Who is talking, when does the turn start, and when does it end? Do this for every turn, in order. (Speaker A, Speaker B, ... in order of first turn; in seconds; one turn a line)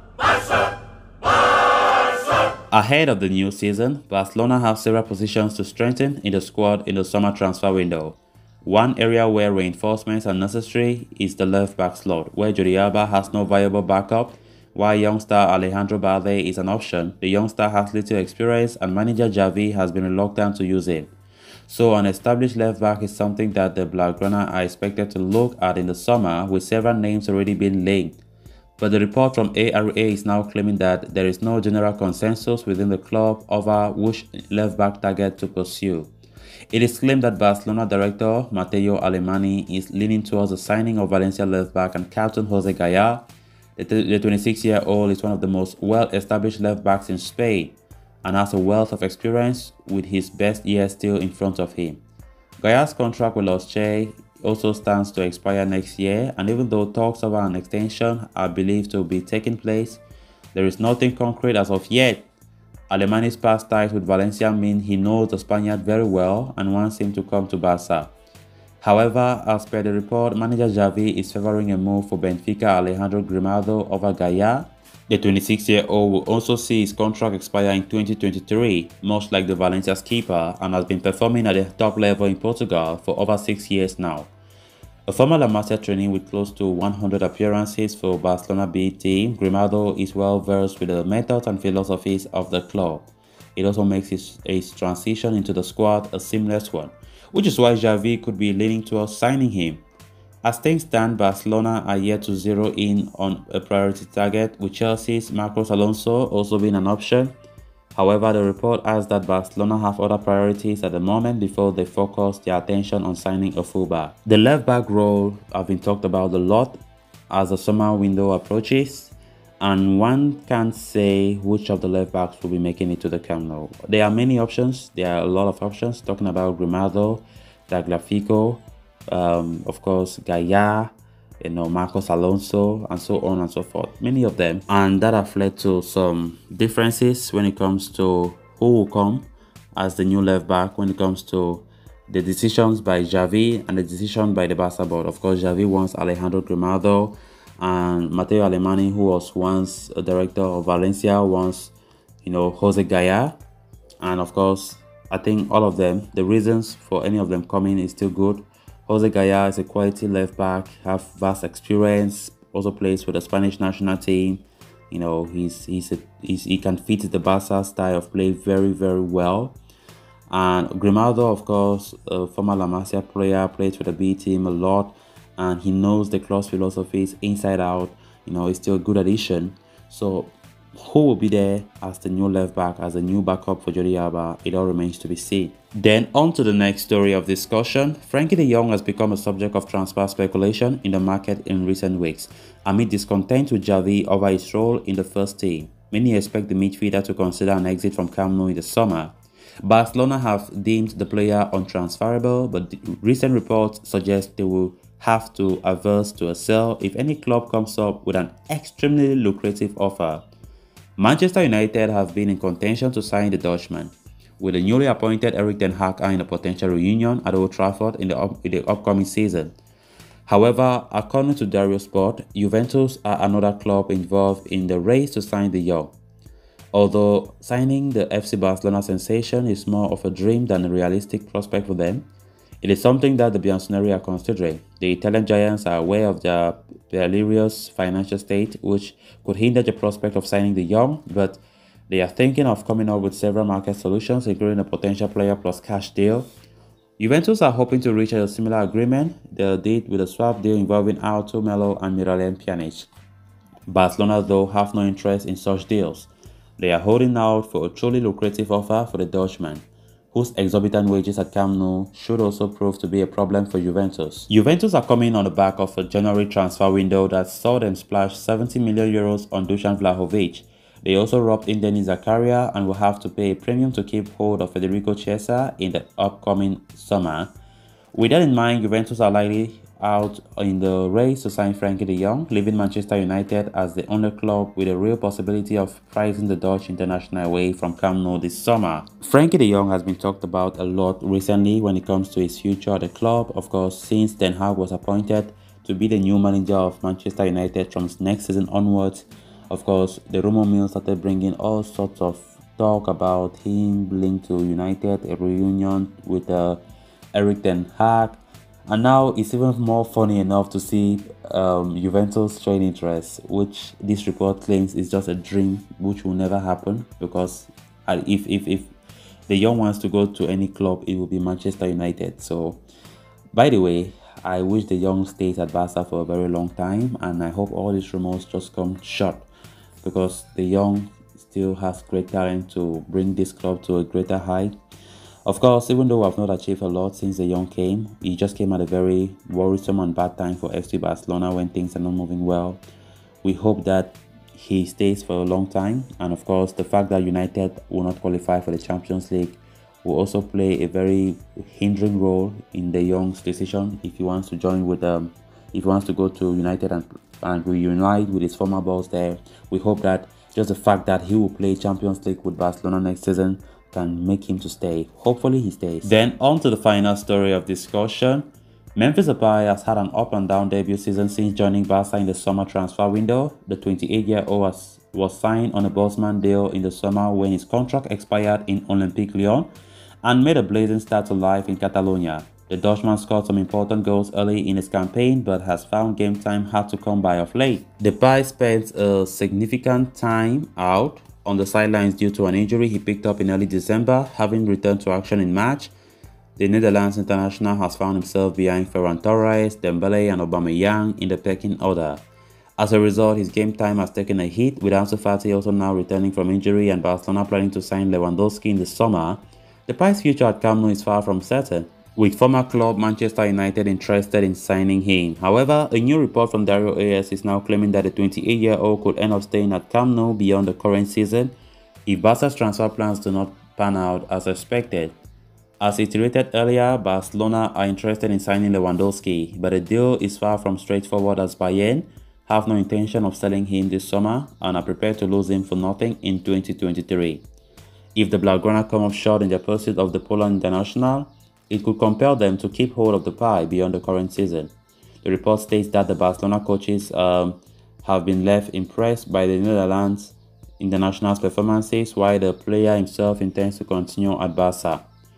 Speaker A: 2.7-21.1
Speaker A: 21.7-28.2
Speaker A: 28.8-36.1
Speaker A: 36.7-43.2
Speaker A: 43.8-52.0
Speaker A: 52.6-60.0
Speaker A: 60.5-62.2
Speaker A: 62.9-68.1
Speaker A: 68.8-84.3
Speaker A: 85.1-99.8
Speaker A: 100.4-107.3
Speaker A: 107.9-153.4
Speaker A: 154.0-169.6
Speaker A: 170.3-210.2
Speaker A: 211.0-219.5
Speaker A: 220.3-225.9
Speaker A: 226.7-232.1
Speaker A: 232.6-246.2
Speaker A: 247.0-252.9
Speaker A: 253.7-277.3
Speaker A: 277.9-306.6
Speaker A: 307.1-318.7
Speaker A: 319.3-322.6
Speaker A: 323.3-329.3
Speaker A: 329.8-334.5
Speaker A: 335.2-342.6
Speaker A: 343.2-379.5
Speaker A: 380.0-395.7
Speaker A: 396.4-402.0
Speaker A: 402.6-421.3
Speaker A: 421.9-424.9
Speaker A: 425.6-437.2
Speaker A: 437.9-444.5
Speaker A: 445.0-454.8